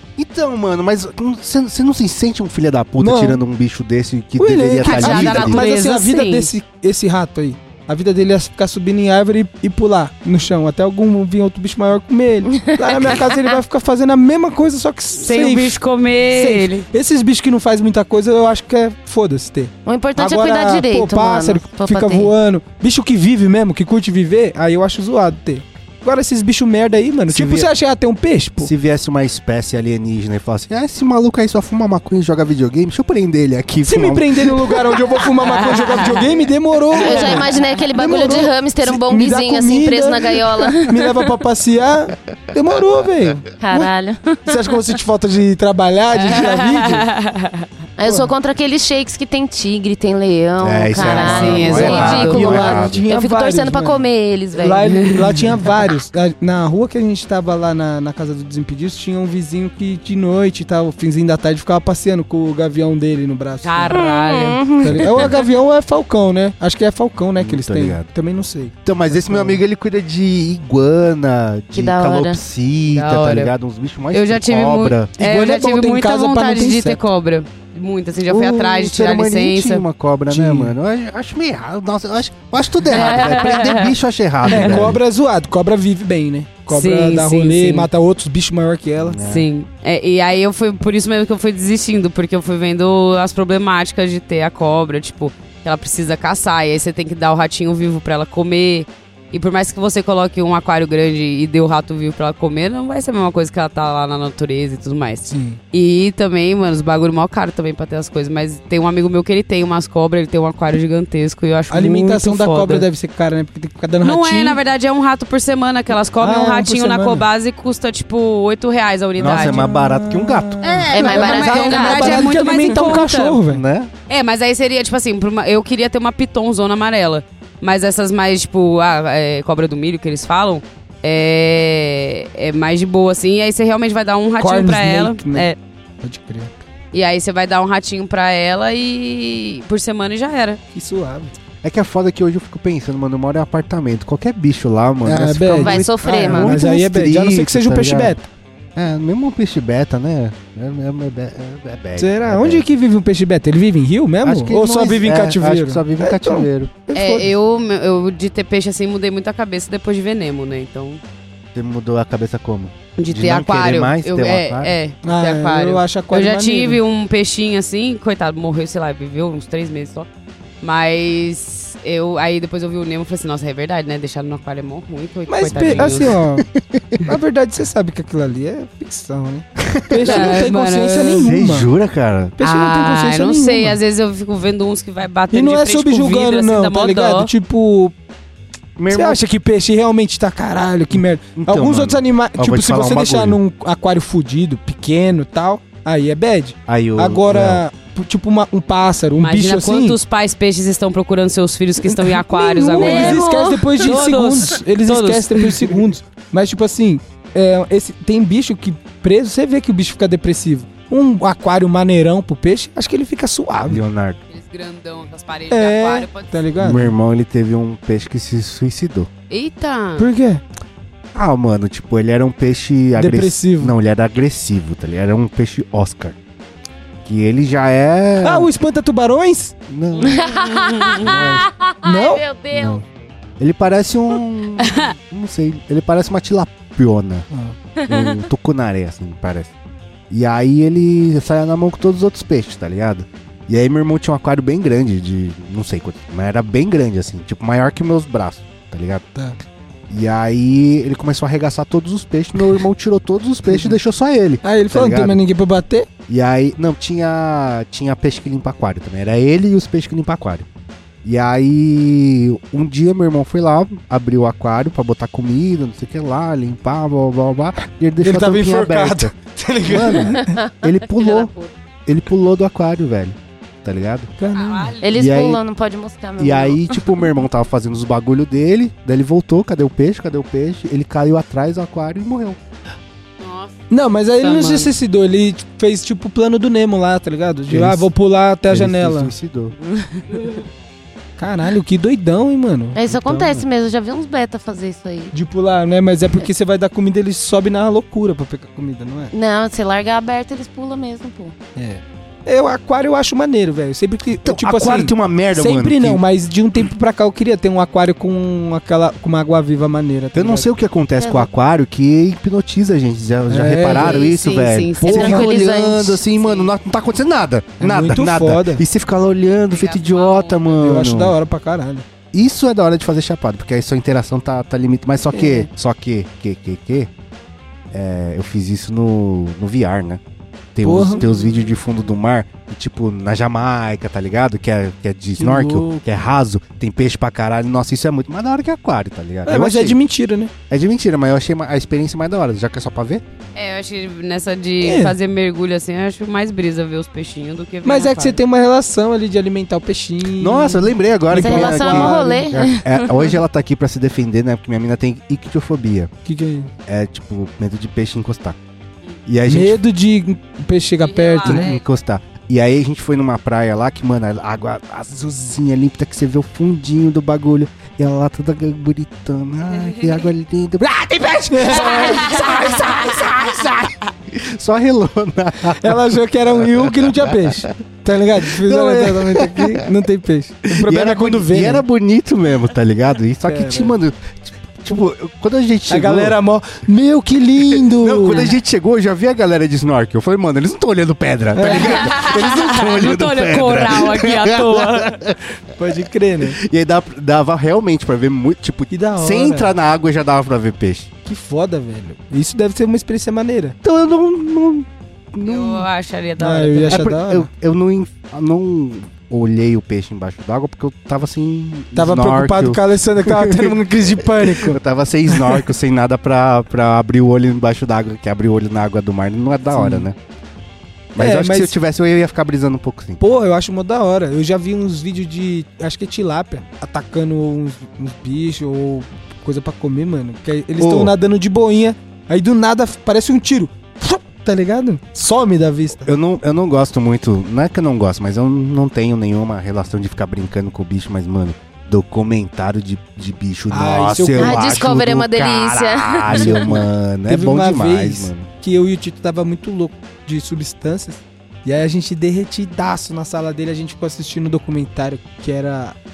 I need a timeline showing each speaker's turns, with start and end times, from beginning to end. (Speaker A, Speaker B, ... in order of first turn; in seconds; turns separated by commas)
Speaker A: 0.2-5.6, Speaker B: 3.0-3.4, Speaker B: 4.4-15.8, Speaker C: 4.8-6.5, Speaker D: 12.5-13.2, Speaker C: 15.2-16.9, Speaker B: 16.3-28.7, Speaker D: 19.8-22.3, Speaker A: 27.3-27.7, Speaker A: 28.6-35.0, Speaker B: 33.8-43.9, Speaker D: 37.0-41.3, Speaker C: 37.3-37.6, Speaker D: 43.6-44.6, Speaker B: 44.5-47.1, Speaker C: 46.1-47.6, Speaker D: 48.0-55.1, Speaker B: 48.0-48.3, Speaker A: 50.6-53.0, Speaker C: 51.0-52.6, Speaker B: 51.2-64.0, Speaker C: 63.6-64.6, Speaker D: 63.9-65.3, Speaker B: 64.8-69.6, Speaker A: 65.0-65.3, Speaker A: 67.4-68.1, Speaker A: 68.8-75.1, Speaker D: 71.7-72.4, Speaker C: 72.9-73.5, Speaker C: 74.1-79.8, Speaker B: 75.2-77.0, Speaker A: 78.3-85.0, Speaker B: 80.3-80.7, Speaker C: 82.9-83.9, Speaker B: 84.5-89.2, Speaker C: 84.5-84.8, Speaker C: 86.7-87.9, Speaker A: 89.0-89.5, Speaker C: 89.2-112.9, Speaker B: 105.3-105.6, Speaker B: 111.7-114.6, Speaker C: 114.0-119.7, Speaker B: 116.2-117.2, Speaker A: 119.2-122.3, Speaker B: 119.2-123.6, Speaker D: 120.9-122.3, Speaker C: 120.9-123.4, Speaker A: 123.5-123.9, Speaker C: 124.1-135.6, Speaker B: 134.4-135.5, Speaker B: 136.0-136.5, Speaker C: 136.9-140.6, Speaker B: 140.7-141.3, Speaker A: 141.6-148.1, Speaker B: 145.0-148.3, Speaker D: 145.6-146.6, Speaker A: 148.8-152.6, Speaker B: 152.0-157.3, Speaker A: 154.2-156.7, Speaker C: 156.9-161.0, Speaker A: 161.5-164.7, Speaker C: 163.0-170.1, Speaker B: 165.0-166.8, Speaker C: 170.6-176.1, Speaker B: 175.3-176.5, Speaker A: 175.6-177.1, Speaker B: 177.0-181.7, Speaker A: 179.7-180.4, Speaker C: 180.0-181.2, Speaker A: 181.2-182.4, Speaker B: 182.4-183.8, Speaker C: 182.4-187.3, Speaker B: 185.3-187.9, Speaker A: 188.8-189.2, Speaker B: 188.9-200.0, Speaker A: 190.9-193.4, Speaker A: 196.7-197.6, Speaker C: 199.2-203.3, Speaker B: 201.8-213.8, Speaker D: 202.8-203.9, Speaker C: 203.8-205.7, Speaker A: 213.6-214.2, Speaker C: 214.3-216.4, Speaker B: 215.5-216.9, Speaker A: 216.6-219.1, Speaker C: 219.3-220.1, Speaker B: 220.0-220.4, Speaker A: 221.1-226.2, Speaker B: 222.9-223.7, Speaker A: 227.0-228.5, Speaker B: 228.2-229.6, Speaker A: 229.7-230.3, Speaker C: 229.9-231.1, Speaker D: 230.0-232.8, Speaker A: 231.0-231.5, Speaker B: 231.8-232.8, Speaker A: 233.4-237.3, Speaker D: 237.8-238.2, Speaker A: 237.9-239.5, Speaker A: 240.1-249.0, Speaker A: 249.9-255.2, Speaker B: 253.5-253.8, Speaker B: 254.4-255.9, Speaker A: 256.1-260.4, Speaker A: 261.0-269.1, Speaker B: 268.0-270.4, Speaker A: 269.6-271.3, Speaker C: 271.0-271.5, Speaker A: 271.9-274.1, Speaker B: 274.2-274.7, Speaker C: 274.3-274.9, Speaker D: 274.8-276.6, Speaker A: 274.9-275.4, Speaker A: 276.2-282.4, Speaker C: 283.2-283.5, Speaker B: 283.7-289.1, Speaker C: 284.2-284.7, Speaker A: 287.5-287.9, Speaker A: 288.5-289.5, Speaker C: 289.8-290.3, Speaker B: 291.2-293.4, Speaker D: 292.7-295.1, Speaker B: 295.1-299.1, Speaker D: 299.1-301.3, Speaker B: 301.6-310.5, Speaker A: 304.2-306.0, Speaker A: 310.1-321.1, Speaker D: 311.0-311.3, Speaker B: 313.3-314.0, Speaker C: 313.7-315.2, Speaker D: 314.8-316.0, Speaker B: 314.8-315.3, Speaker C: 316.2-316.5, Speaker B: 317.6-318.6, Speaker C: 319.5-320.5, Speaker B: 320.6-321.8, Speaker A: 322.1-326.9, Speaker B: 325.1-325.5, Speaker A: 327.7-330.0, Speaker A: 330.5-339.8, Speaker B: 330.6-331.0, Speaker C: 330.9-331.5, Speaker B: 335.2-335.8, Speaker B: 339.2-340.3, Speaker A: 340.5-343.0, Speaker C: 343.3-348.2, Speaker B: 344.6-344.9, Speaker B: 347.6-352.3, Speaker A: 350.2-355.9, Speaker D: 351.1-353.0, Speaker B: 356.1-356.5, Speaker A: 356.7-358.4, Speaker A: 359.1-359.6, Speaker B: 359.3-361.5, Speaker C: 360.8-361.6, Speaker A: 361.2-377.5, Speaker C: 369.5-370.0, Speaker B: 371.3-372.3, Speaker C: 372.0-372.3, Speaker B: 375.5-381.6, Speaker A: 378.2-379.7, Speaker A: 380.5-386.2, Speaker B: 383.2-383.8, Speaker B: 385.7-388.3, Speaker A: 387.5-395.2, Speaker B: 391.3-392.0, Speaker C: 391.5-395.0, Speaker B: 395.5-396.4, Speaker A: 396.2-400.9, Speaker B: 398.7-399.5, Speaker B: 401.0-403.6, Speaker A: 403.6-405.7, Speaker C: 405.2-406.9, Speaker B: 406.2-407.3, Speaker A: 406.7-419.9, Speaker B: 411.7-414.6, Speaker B: 415.1-415.4, Speaker B: 419.5-419.9, Speaker A: 420.9-423.0, Speaker B: 420.9-421.5, Speaker B: 423.0-435.9, Speaker A: 430.6-430.9, Speaker A: 435.8-448.3, Speaker B: 443.5-444.7, Speaker D: 444.2-446.5, Speaker B: 446.1-455.7